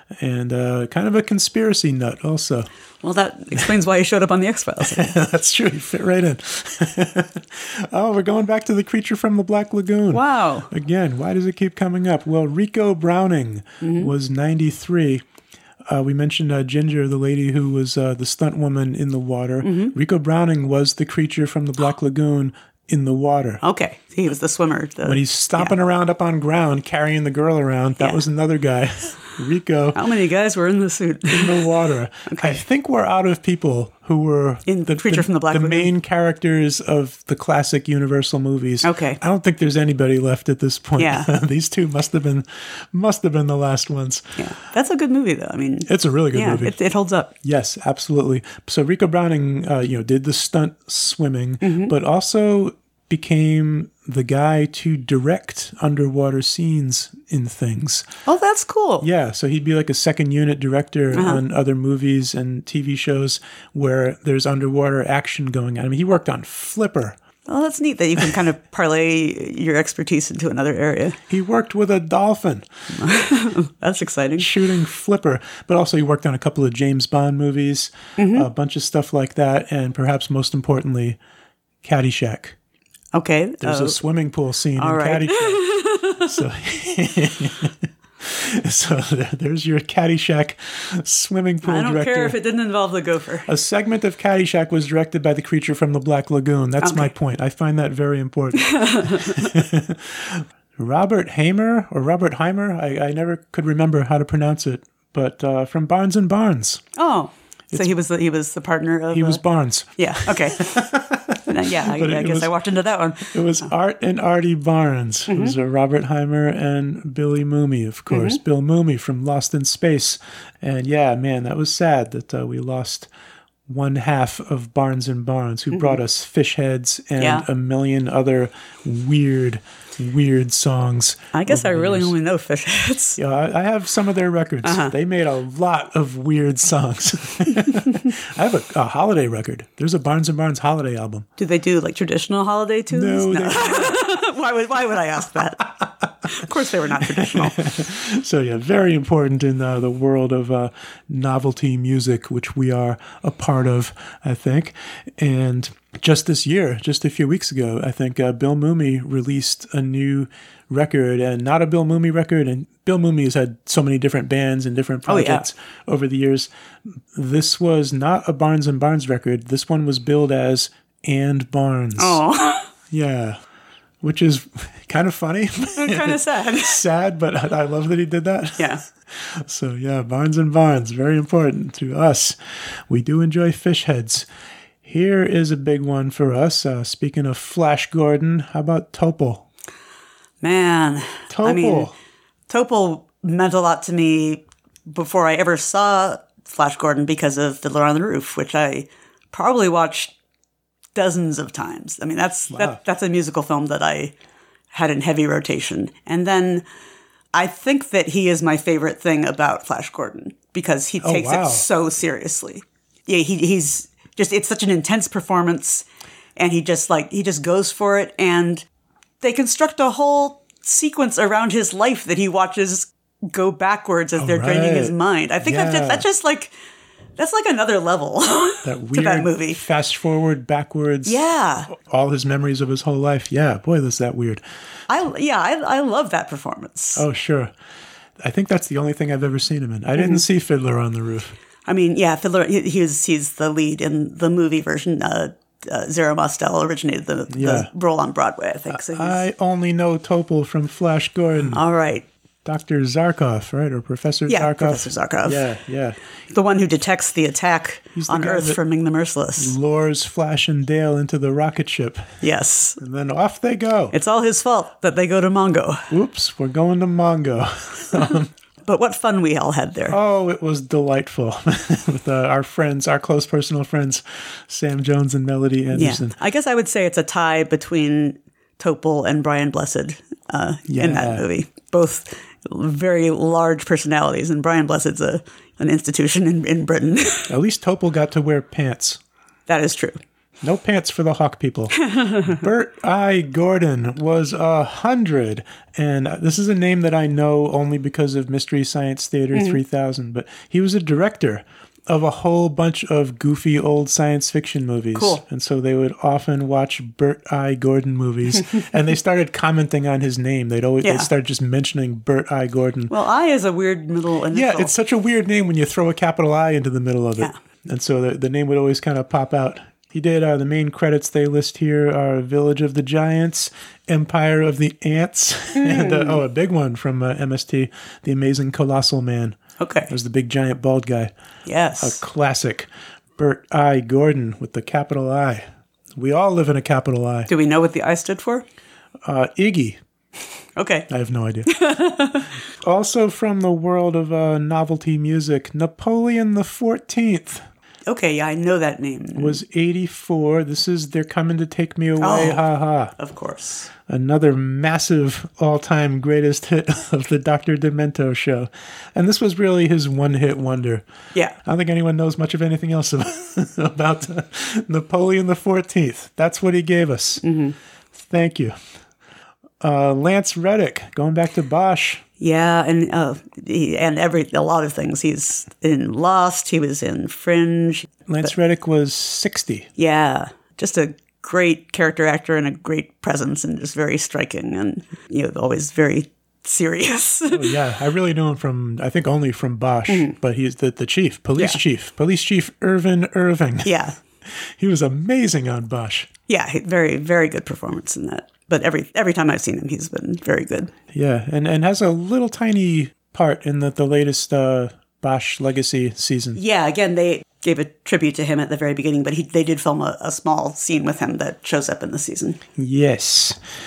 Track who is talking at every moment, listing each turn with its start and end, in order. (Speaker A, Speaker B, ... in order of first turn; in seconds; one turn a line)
Speaker A: 0.2-2.7
Speaker B: 3.0-5.1
Speaker A: 4.8-15.2
Speaker B: 10.1-10.7
Speaker B: 13.8-14.1
Speaker A: 15.9-23.6
Speaker B: 19.6-19.9
Speaker B: 23.6-25.8
Speaker A: 25.0-30.0
Speaker B: 28.0-28.2
Speaker B: 29.9-31.7
Speaker A: 31.3-44.4
Speaker B: 32.3-32.6
Speaker B: 34.7-35.9
Speaker B: 38.8-39.2
Speaker B: 41.0-41.3
Speaker B: 44.4-47.3
Speaker A: 45.9-46.8
Speaker A: 47.4-58.1
Speaker B: 51.6-51.9
Speaker B: 58.3-59.1
Speaker A: 59.0-67.2
Speaker B: 61.1-61.4
Speaker B: 67.5-71.2
Speaker A: 71.3-72.7
Speaker B: 72.9-74.5
Speaker A: 74.4-81.2
Speaker B: 78.2-78.5
Speaker A: 81.8-82.6
Speaker B: 83.1-84.0
Speaker A: 83.6-85.7
Speaker B: 84.8-86.3
Speaker A: 86.2-92.4
Speaker B: 91.6-93.5
Speaker A: 93.5-106.8
Speaker B: 96.8-97.1
Speaker B: 98.6-99.5
Speaker B: 107.0-109.4
Speaker A: 109.1-112.5
Speaker B: 110.0-110.9
Speaker B: 111.5-113.7
Speaker A: 113.3-123.1
Speaker B: 115.3-115.5
Speaker B: 118.1-118.4
Speaker A: 123.7-132.2
Speaker B: 125.7-126.0
Speaker B: 127.2-127.5
Speaker B: 131.3-133.2
Speaker A: 133.2-141.3
Speaker B: 134.6-134.9
Speaker B: 141.4-145.7
Speaker A: 142.9-144.0
Speaker B: 146.3-147.7
Speaker A: 147.1-166.5
Speaker B: 165.1-165.5
Speaker A: 167.1-172.2
Speaker B: 172.0-172.7
Speaker A: 172.9-173.4
Speaker A: 174.0-184.3
Speaker B: 175.8-176.8
Speaker A: 184.8-189.4
Speaker B: 190.4-191.9
Speaker A: 191.3-191.9
Speaker B: 192.5-200.1
Speaker B: 200.9-204.1
Speaker A: 202.5-202.8
Speaker B: 204.7-206.7
Speaker B: 207.3-215.8
Speaker A: 211.0-211.7
Speaker B: 216.4-218.7
Speaker B: 219.2-226.5
Speaker A: 224.2-226.1
Speaker B: 227.2-229.6
Speaker A: 228.6-234.4
Speaker B: 231.1-231.7
Speaker B: 234.9-237.1
Speaker A: 237.0-237.5
Speaker A: 238.2-241.4
Speaker B: 241.7-249.2
Speaker A: 247.3-247.7
Speaker A: 248.7-251.6
Speaker B: 251.5-252.1
Speaker A: 252.4-256.0
Speaker B: 254.3-255.4
Speaker B: 256.3-259.6
Speaker A: 258.0-258.6
Speaker A: 259.4-262.2
Speaker B: 262.2-262.8
Speaker A: 262.8-263.9
Speaker B: 263.9-265.9
Speaker A: 265.9-268.3
Speaker B: 268.6-270.0
Speaker A: 269.9-276.1
Speaker B: 275.7-287.3
Speaker A: 280.7-281.3
Speaker A: 287.3-289.0
Speaker B: 289.5-290.0
Speaker A: 290.4-312.9
Speaker B: 291.8-292.4
Speaker B: 299.3-299.6
Speaker B: 304.9-305.2
Speaker B: 310.8-311.1
Speaker B: 312.9-314.7
Speaker A: 314.3-329.4
Speaker B: 325.6-326.2
Speaker B: 329.6-329.9
Speaker A: 329.9-331.1
Speaker B: 331.5-332.0
Speaker A: 331.8-337.3
Speaker B: 337.3-338.4
Speaker A: 339.1-339.8
Speaker B: 340.6-340.9
Speaker A: 340.9-341.5
Speaker B: 341.5-342.3
Speaker A: 342.6-347.5
Speaker B: 347.9-349.4
Speaker A: 349.1-352.9
Speaker B: 352.0-352.4
Speaker B: 352.9-353.7
Speaker A: 353.9-360.9
Speaker A: 361.4-367.2
Speaker B: 367.2-367.6
Speaker A: 367.9-368.6
Speaker A: 369.6-372.0
Speaker B: 372.2-378.3
Speaker A: 378.1-379.7
Speaker B: 379.8-387.6
Speaker A: 387.3-393.7
Speaker B: 389.9-390.1
Speaker B: 393.6-394.0
Speaker A: 394.3-396.1
Speaker B: 396.3-400.7
Speaker A: 400.9-406.4
Speaker B: 406.4-412.4
Speaker A: 412.6-413.4